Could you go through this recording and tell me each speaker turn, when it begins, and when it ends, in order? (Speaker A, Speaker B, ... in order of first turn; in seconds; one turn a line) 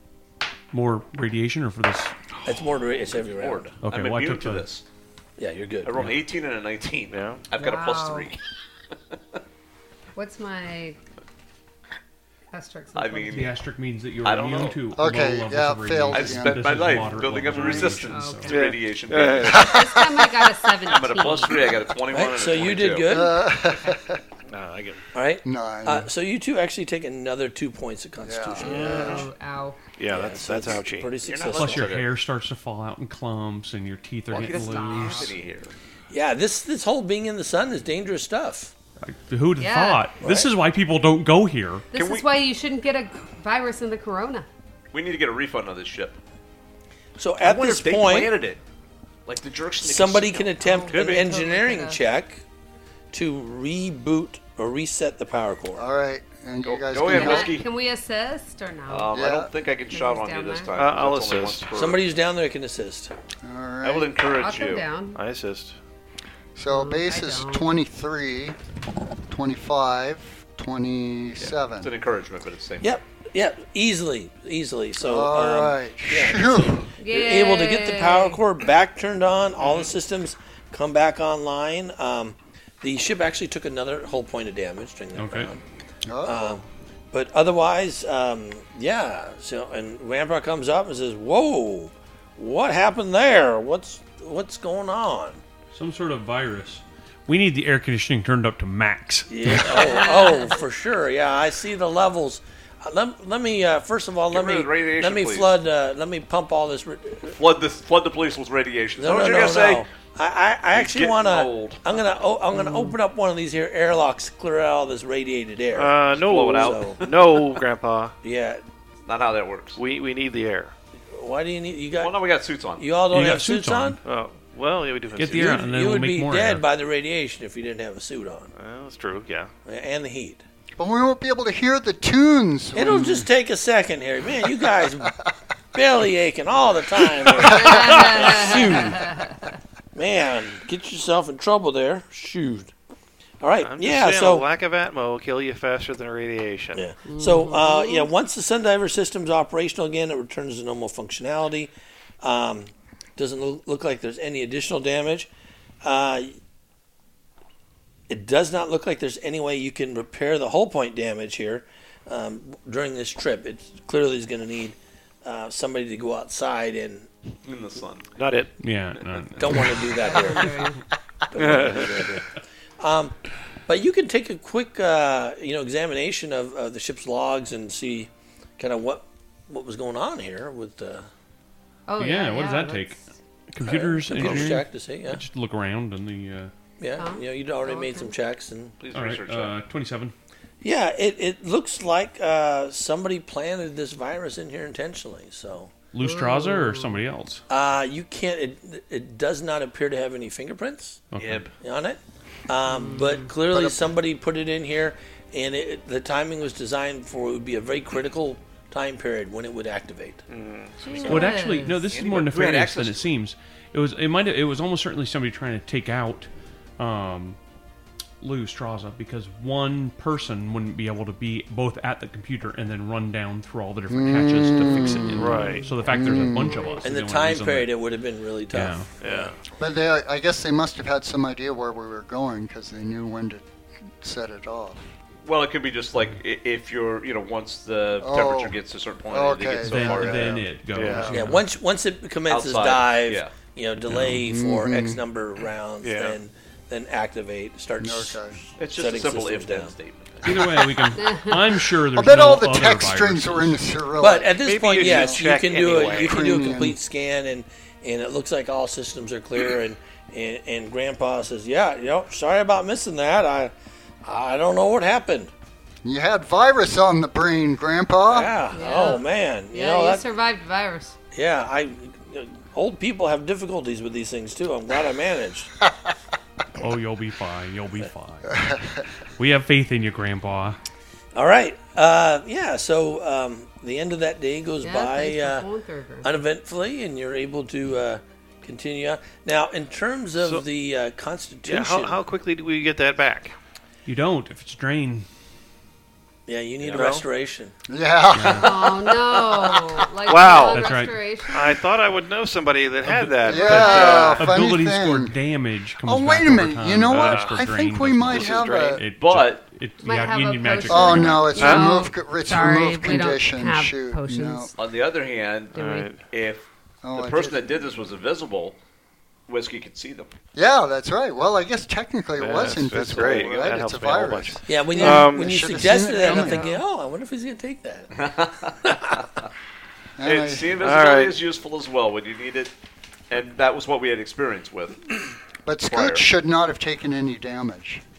Speaker A: 0.7-2.1
Speaker B: 2.5-3.7
Speaker C: 3.3-4.8
Speaker A: 3.8-4.7
Speaker B: 5.4-6.1
Speaker C: 5.8-8.4
Speaker D: 7.1-7.4
Speaker E: 7.6-8.3
Speaker E: 10.2-11.0
Speaker E: 12.5-13.6
Speaker C: 12.9-13.5
Speaker A: 13.3-18.6
Speaker C: 14.2-14.8
Speaker D: 14.3-14.8
Speaker F: 14.9-16.9
Speaker C: 16.1-19.9
Speaker E: 17.5-18.6
Speaker D: 18.5-19.9
Speaker E: 19.5-21.9
Speaker C: 20.8-23.2
Speaker B: 22.1-23.5
Speaker F: 23.1-24.2
Speaker D: 24.5-25.1
Speaker B: 25.1-29.2
Speaker F: 25.4-26.1
Speaker F: 28.2-29.2
Speaker E: 28.6-29.8
Speaker D: 28.6-29.3
Speaker D: 30.0-31.1
Speaker B: 30.1-31.9
Speaker C: 31.2-32.1
Speaker A: 31.5-35.3
Speaker C: 34.3-35.7
Speaker E: 34.3-35.4
Speaker B: 36.1-38.7
Speaker A: 39.0-41.9
Speaker E: 39.6-40.1
Speaker B: 40.2-40.5
Speaker E: 41.9-44.5
Speaker C: 41.9-42.3
Speaker C: 44.9-46.2
Speaker B: 47.2-48.3
Speaker C: 47.4-48.6
Speaker C: 49.3-51.3
Speaker B: 49.8-52.4
Speaker E: 50.6-52.0
Speaker B: 53.1-55.9
Speaker F: 55.8-57.6
Speaker C: 56.6-57.7
Speaker E: 57.1-59.1
Speaker C: 58.9-62.0
Speaker F: 59.1-59.5
Speaker E: 59.9-60.7
Speaker D: 60.7-61.8
Speaker B: 61.8-63.1
Speaker F: 63.4-64.2
Speaker C: 63.8-64.9
Speaker E: 64.4-65.2
Speaker D: 65.1-65.8
Speaker F: 66.5-68.6
Speaker E: 66.7-67.7
Speaker F: 69.3-71.9
Speaker C: 71.4-73.0
Speaker B: 72.8-85.6
Speaker F: 75.0-76.9
Speaker E: 77.0-78.4
Speaker A: 85.2-85.5
Speaker F: 86.0-86.6
Speaker B: 86.2-95.4
Speaker A: 95.7-100.0
Speaker B: 99.3-107.4
Speaker E: 99.8-100.6
Speaker C: 104.3-105.5
Speaker C: 107.3-109.9
Speaker B: 109.0-115.9
Speaker C: 110.7-111.8
Speaker D: 115.7-118.2
Speaker C: 116.1-117.2
Speaker B: 116.5-117.0
Speaker B: 118.2-118.6
Speaker C: 119.1-119.8
Speaker D: 119.8-120.7
Speaker B: 121.1-122.2
Speaker C: 122.0-122.9
Speaker B: 122.8-124.0
Speaker A: 123.1-124.0
Speaker D: 124.0-125.7
Speaker A: 125.2-126.7
Speaker B: 125.3-128.5
Speaker D: 128.5-129.5
Speaker B: 129.7-130.4
Speaker F: 130.8-133.3
Speaker B: 132.8-135.2
Speaker B: 135.7-139.2
Speaker E: 137.4-139.4
Speaker B: 139.9-142.7
Speaker B: 143.4-144.5
Speaker D: 143.6-146.8
Speaker B: 146.8-155.3
Speaker E: 147.1-148.1
Speaker B: 155.8-156.4
Speaker B: 158.1-167.1
Speaker C: 167.4-168.1
Speaker D: 168.2-168.6
Speaker A: 168.6-170.2
Speaker B: 169.4-170.7
Speaker E: 170.1-170.8
Speaker B: 171.3-172.3
Speaker D: 171.3-172.1
Speaker B: 172.8-173.2
Speaker B: 173.7-181.1
Speaker E: 181.9-183.0
Speaker A: 182.0-183.0
Speaker A: 183.5-186.5
Speaker B: 183.6-185.2
Speaker D: 184.2-184.5
Speaker B: 186.8-188.7
Speaker E: 187.0-188.1
Speaker C: 188.8-189.6
Speaker A: 188.9-190.1
Speaker B: 190.6-195.7
Speaker A: 195.9-197.4
Speaker E: 196.0-197.0
Speaker B: 197.5-201.0
Speaker A: 201.1-201.5
Speaker C: 201.2-201.5
Speaker B: 201.6-210.2
Speaker E: 202.7-203.3
Speaker D: 210.3-210.8
Speaker E: 210.8-211.9
Speaker C: 210.8-213.1
Speaker A: 211.0-217.4
Speaker A: 218.2-227.8
Speaker F: 223.9-226.7
Speaker D: 225.1-225.8
Speaker E: 225.4-226.8
Speaker B: 226.8-229.3
Speaker A: 228.5-228.9
Speaker D: 229.0-229.4
Speaker F: 229.6-233.5
Speaker F: 234.0-234.9
Speaker C: 235.3-240.4
Speaker F: 238.0-238.6
Speaker F: 239.1-241.2
Speaker A: 239.6-241.4
Speaker D: 240.7-241.2
Speaker B: 241.1-249.7
Speaker C: 242.3-243.3
Speaker A: 243.9-244.2
Speaker F: 244.1-245.0
Speaker D: 245.8-246.2
Speaker F: 247.8-248.4
Speaker C: 248.6-250.8
Speaker A: 250.2-253.6
Speaker E: 251.0-251.6
Speaker F: 251.9-255.2
Speaker B: 254.0-263.5
Speaker D: 254.3-256.4
Speaker F: 255.8-256.8
Speaker B: 264.0-265.3
Speaker F: 265.8-268.4
Speaker B: 268.1-270.1
Speaker E: 268.5-271.0
Speaker B: 271.1-275.5
Speaker A: 276.6-278.5
Speaker F: 278.3-278.8
Speaker A: 279.2-280.6
Speaker B: 281.1-285.5
Speaker E: 284.6-286.1
Speaker B: 286.0-292.0
Speaker D: 290.2-290.4
Speaker D: 291.4-293.4
Speaker A: 293.9-295.1
Speaker B: 296.3-297.5
Speaker C: 296.6-296.9
Speaker D: 296.8-297.1
Speaker F: 297.7-299.6
Speaker A: 298.1-298.6
Speaker E: 298.4-301.6
Speaker D: 300.1-304.4
Speaker A: 300.5-301.1
Speaker A: 302.9-311.5
Speaker F: 303.2-305.1
Speaker C: 303.6-304.3
Speaker F: 305.8-308.8
Speaker D: 306.9-307.5
Speaker D: 308.0-308.8
Speaker C: 309.0-309.5
Speaker E: 309.8-314.6
Speaker F: 310.7-314.5
Speaker D: 311.4-311.9
Speaker C: 314.6-318.6
Speaker D: 315.5-316.1
Speaker F: 316.8-317.7
Speaker C: 319.3-320.1
Speaker F: 320.4-326.6
Speaker D: 322.2-326.6
Speaker C: 322.7-323.7
Speaker B: 324.5-329.0
Speaker C: 327.9-329.0
Speaker F: 330.0-330.6
Speaker C: 330.0-332.5
Speaker D: 330.6-331.2
Speaker C: 333.1-334.9
Speaker F: 335.4-337.8
Speaker C: 335.7-336.1